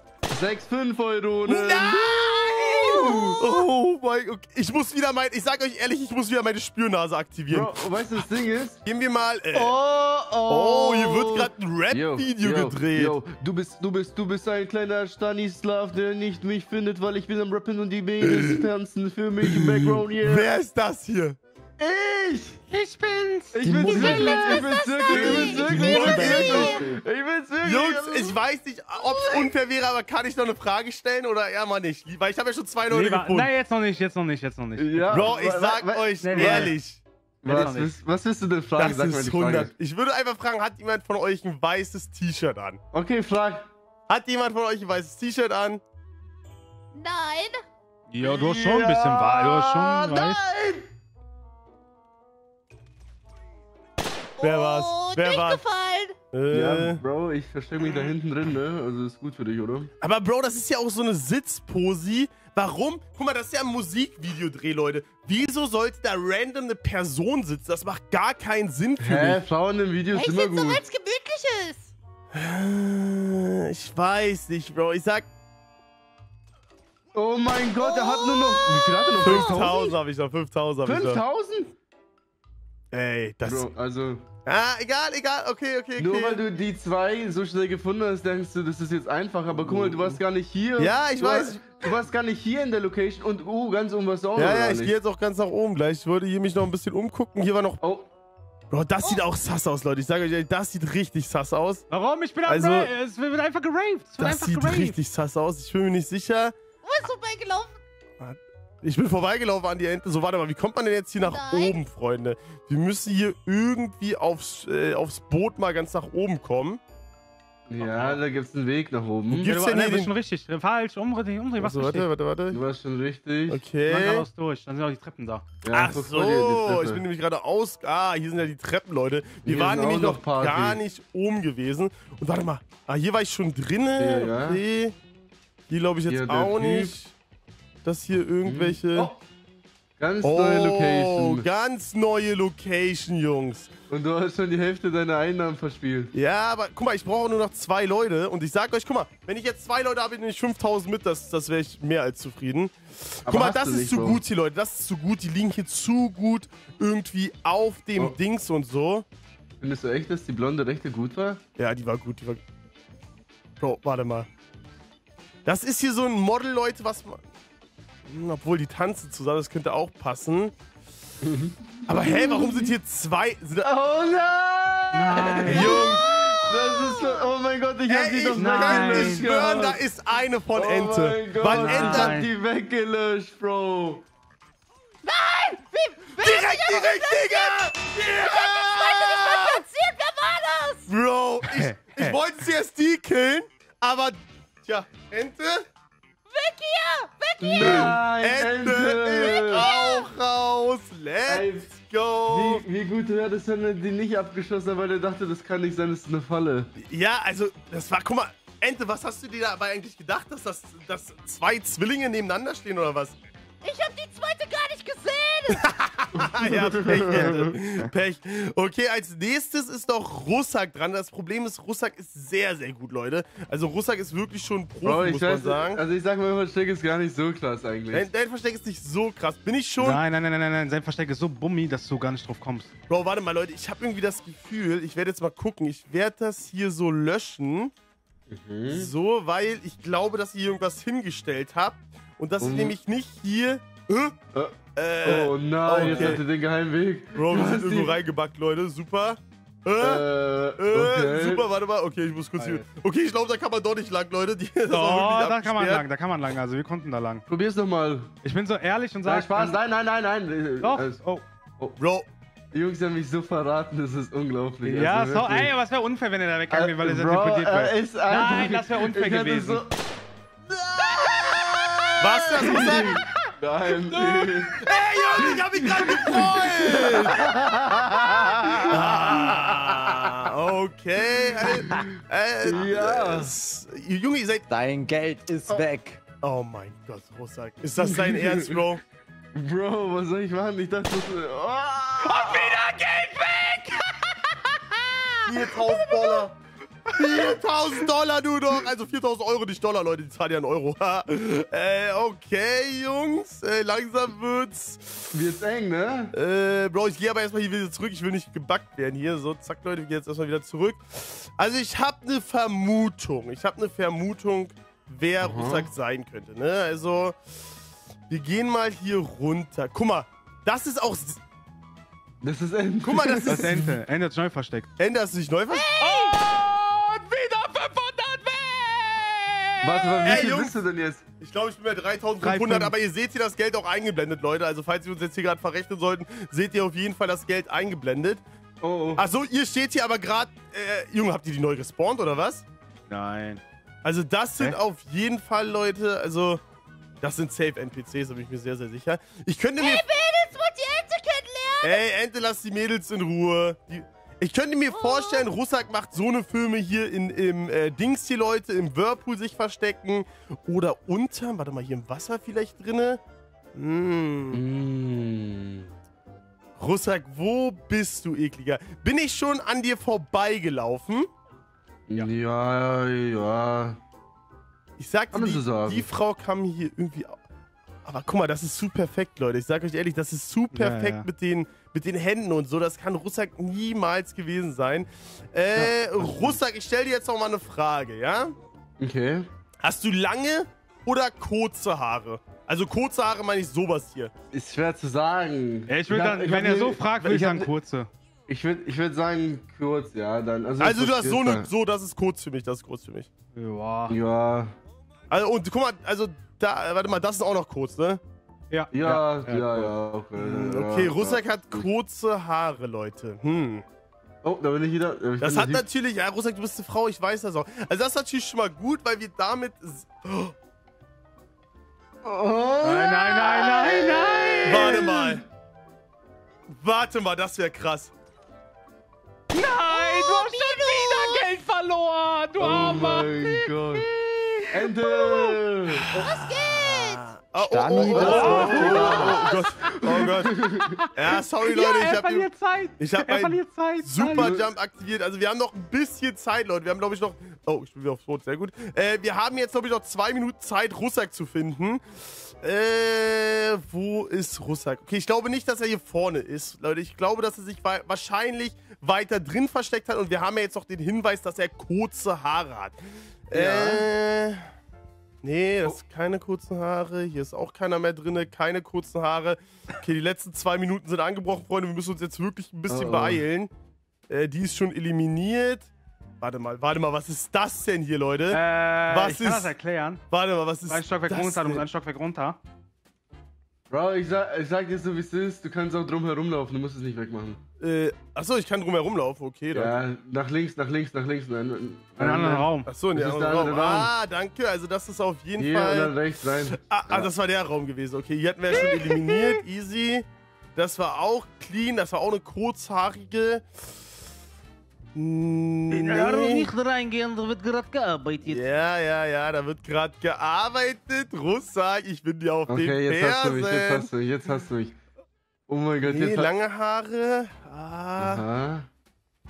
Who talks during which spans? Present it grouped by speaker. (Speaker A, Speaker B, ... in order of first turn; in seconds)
Speaker A: 0.3-3.4, 7.5-8.8, 9.5-20.5, 21.8-22.6, 23.5-28.4, 34.8-36.7, 37.4-39.7, 42.9-43.7, 48.2-50.9, 56.5-59.9, 69.0-70.8, 77.1-79.8, 80.8-81.7, 83.5-84.2, 86.0-95.0, 97.8-98.1, 117.7-119.5, 122.5-123.6, 125.6-127.0, 129.4-130.8, 134.0-134.6, 136.1-136.9, 138.4-139.2, 140.0-141.4, 143.9-146.1, 153.3-154.2, 159.6-161.4, 171.2-172.7, 173.6-179.8, 180.5-184.1, 197.4-199.7, 201.3-201.7, 202.3-206.7, 216.2-217.6, 224.8-228.1, 238.3-238.9, 242.4-242.8, 244.3-247.9, 249.8-251.5, 257.3-258.1, 259.1-261.0, 262.5-265.5, 266.5-269.7, 270.6-274.6, 275.2-279.0, 282.4-283.3, 287.8-288.6, 289.3-292.6, 305.1-306.1, 315.2-315.7, 322.2-323.8, 329.6-331.0, 338.6-339.0, 364.3-365.7, 371.9-373.8, 375.1-375.9, 388.8-389.3, 394.3-397.5, 398.3-401.5, 403.9-404.6, 408.7-411.7, 414.2-415.6, 422.0-425.2, 432.4-433.9, 434.5-436.0, 437.8-440.8, 444.2-444.4, 472.7-473.2, 483.7-487.4, 489.5-493.9, 495.4-497.1, 512.5-514.8, 515.5-516.3, 518.0-518.7
Speaker B: 1.5-8.2, 8.8-9.8, 10.5-13.2, 18.2-18.6, 19.5-21.4, 25.1-26.8, 27.6-33.5, 35.1-37.7, 38.8-42.8, 44.1-45.8, 54.4-55.6, 56.3-57.0, 60.0-69.4, 72.3-75.3, 79.2-81.2, 82.9-83.7, 84.5-86.4, 89.5-90.2, 90.8-91.9, 94.4-97.8, 98.7-101.8, 102.5-102.9, 104.2-106.5, 108.2-116.8, 119.3-120.1, 121.6-122.6, 123.5-124.3, 125.7-134.9, 135.7-137.1, 137.8-139.1, 140.2-143.7, 146.1-159.1, 161.6-162.4, 163.6-164.3, 165.4-167.2, 168.1-170.5, 171.9-173.7, 175.4-176.4, 177.9-182.2, 186.2-189.6, 190.9-195.7, 197.6-202.7, 206.8-213.2, 215.5-225.8, 227.9-230.0, 232.9-237.7, 238.7-244.2, 244.8-246.2, 247.2-255.8, 261.8-262.1, 272.0-273.0, 274.6-277.3, 278.4-284.5, 286.2-288.8, 295.2-296.4, 296.9-305.2, 306.1-317.2, 318.1-321.2, 322.8-323.7, 324.8-325.7, 330.0-330.6, 331.2-338.2, 339.0-342.4, 343.8-346.4, 347.0-349.9, 351.6-363.0, 363.6-364.4, 366.6-371.1, 374.8-377.2, 377.9-388.3, 389.6-394.1, 400.6-403.1, 405.1-408.0, 410.2-413.6, 415.2-420.4, 424.4-425.2, 426.5-427.9, 435.9-440.4, 440.9-462.8, 463.3-464.5, 465.2-473.5, 474.1-479.5, 480.1-481.7, 487.6-489.8, 492.7-496.0, 496.5-503.5, 504.9-506.5, 508.3-513.9, 515.8-518.3
Speaker C: 2.2-3.5, 23.8-26.9, 29.1-29.5, 46.9-47.6, 54.4-56.2, 70.1-71.9, 77.8-79.9, 106.8-107.8, 111.2-111.8, 175.8-177.3, 185.0-190.9, 196.3-198.0, 199.4-200.1, 213.6-215.7, 295.6-296.2, 325.5-326.2, 349.6-351.8, 354.7-355.3, 429.7-431.3, 435.9-437.1, 438.7-439.5
Speaker D: 22.7-23.6, 25.1-25.6, 32.9-35.4, 36.2-36.8, 37.5-38.0, 48.1-50.4, 101.9-105.0, 117.8-118.2, 119.4-122.1, 123.9-125.4, 174.9-175.8, 178.3-179.4, 181.4-182.3, 191.4-192.2, 229.8-232.7, 245.8-246.2, 252.4-252.7, 254.7-257.2, 258.2-259.6, 260.6-261.2, 264.6-269.6, 270.9-271.7, 273.7-275.3, 292.0-295.1, 323.3-324.7, 325.8-330.3, 332.2-332.7, 342.9-343.4, 380.5-381.1, 395.7-397.9, 403.4-404.0, 408.5-409.8, 422.6-424.9, 429.3-435.4, 437.9-439.2, 439.8-444.3, 463.3-463.9, 478.3-480.0, 480.7-482.4, 492.0-492.7, 498.5-498.8, 505.7-508.4
Speaker E: 23.6-24.6, 25.6-27.0, 284.5-286.0, 437.4-439.1